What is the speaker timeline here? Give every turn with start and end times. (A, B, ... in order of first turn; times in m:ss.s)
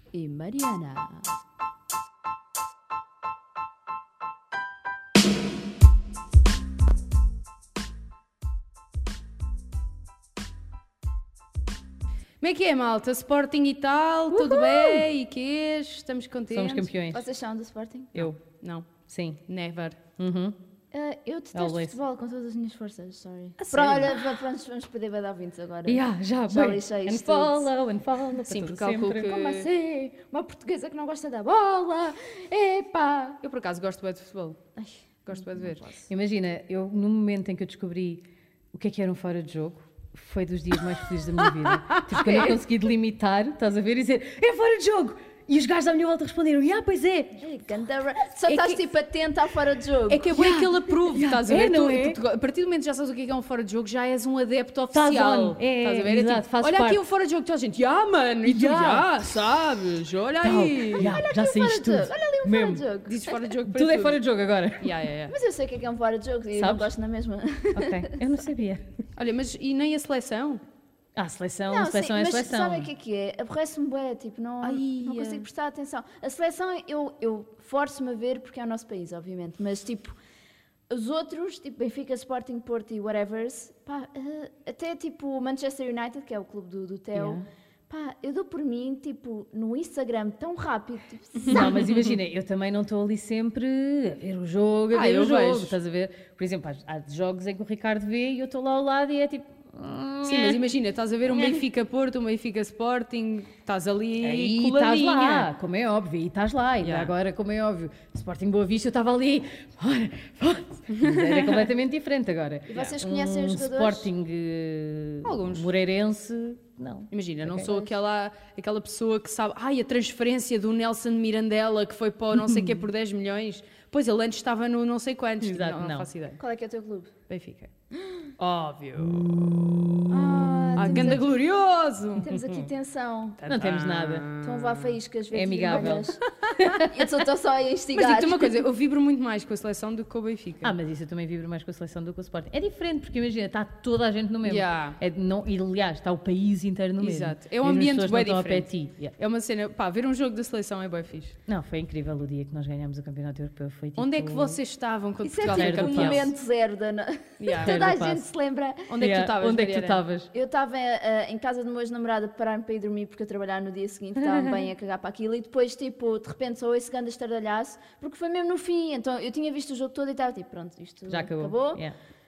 0:00.1-0:01.3 A
0:12.4-0:16.9 B
0:14.3-0:15.0 A
0:16.5-0:17.3 C
0:17.1-0:18.2 A
0:18.2-0:20.0 B
0:19.1-0:19.4 C
0:20.2-0:20.6 C
0:20.9-0:27.7 A
0:21.5-0:22.0 C
0:23.6-0:24.4 B
0:25.9-0:29.3 C
0:28.5-0:29.7 B
0:29.2-0:33.4 A
0:33.4-0:34.6 B
0:35.2-0:36.0 B
0:36.1-0:47.4 C
0:41.5-0:42.5 B
0:42.1-0:42.6 A
0:47.4-0:50.4 A
0:48.5-0:48.8 B
0:50.1-1:01.2 B
0:50.3-0:52.2 C
0:54.9-0:57.0 C
0:58.4-0:59.1 C
1:00.4-1:02.8 C
1:01.0-1:03.3 A
1:03.1-1:04.2 B
1:03.6-1:04.9 C
1:04.8-1:05.4 B
1:05.3-1:08.4 A
1:06.6-1:06.9 C
1:07.8-1:08.9 C
1:09.2-1:10.6 B
1:11.2-1:12.9 C
1:11.7-1:20.2 A
1:14.6-1:15.5 B
1:20.9-1:31.7 A
1:27.1-1:27.4 C
1:31.4-1:32.2 B
1:31.5-1:40.6 C
1:34.9-1:35.8 B
1:40.2-1:45.5 B
1:44.2-1:57.9 C
1:46.8-1:47.1 B
1:50.9-1:51.7 B
1:52.7-1:54.1 A
1:55.2-1:55.7 B
1:57.1-2:06.4 B
2:02.3-2:02.8 C
2:05.4-2:06.1 C
2:06.4-2:07.1 A
2:07.3-2:07.7 B
2:08.4-2:09.5 B
2:09.2-2:09.5 C
2:10.1-2:11.2 A
2:10.8-2:12.7 B
2:10.8-2:11.2 C
2:12.2-2:13.4 A
2:13.4-2:15.0 B
2:13.5-2:14.3 C
2:14.4-2:18.6 A
2:15.3-2:17.1 C
2:17.9-2:20.7 B
2:20.6-2:29.2 C
2:24.5-2:25.0 B
2:27.0-2:31.4 B
2:31.5-2:34.6 C
2:34.0-2:36.3 B
2:35.2-2:38.9 A
2:35.5-2:36.3 C
2:37.4-2:37.8 B
2:37.6-2:38.2 C
2:38.9-2:40.0 B
2:39.0-2:40.3 C
2:40.3-2:51.8 A
2:44.2-2:44.5 C
2:51.1-2:51.9 C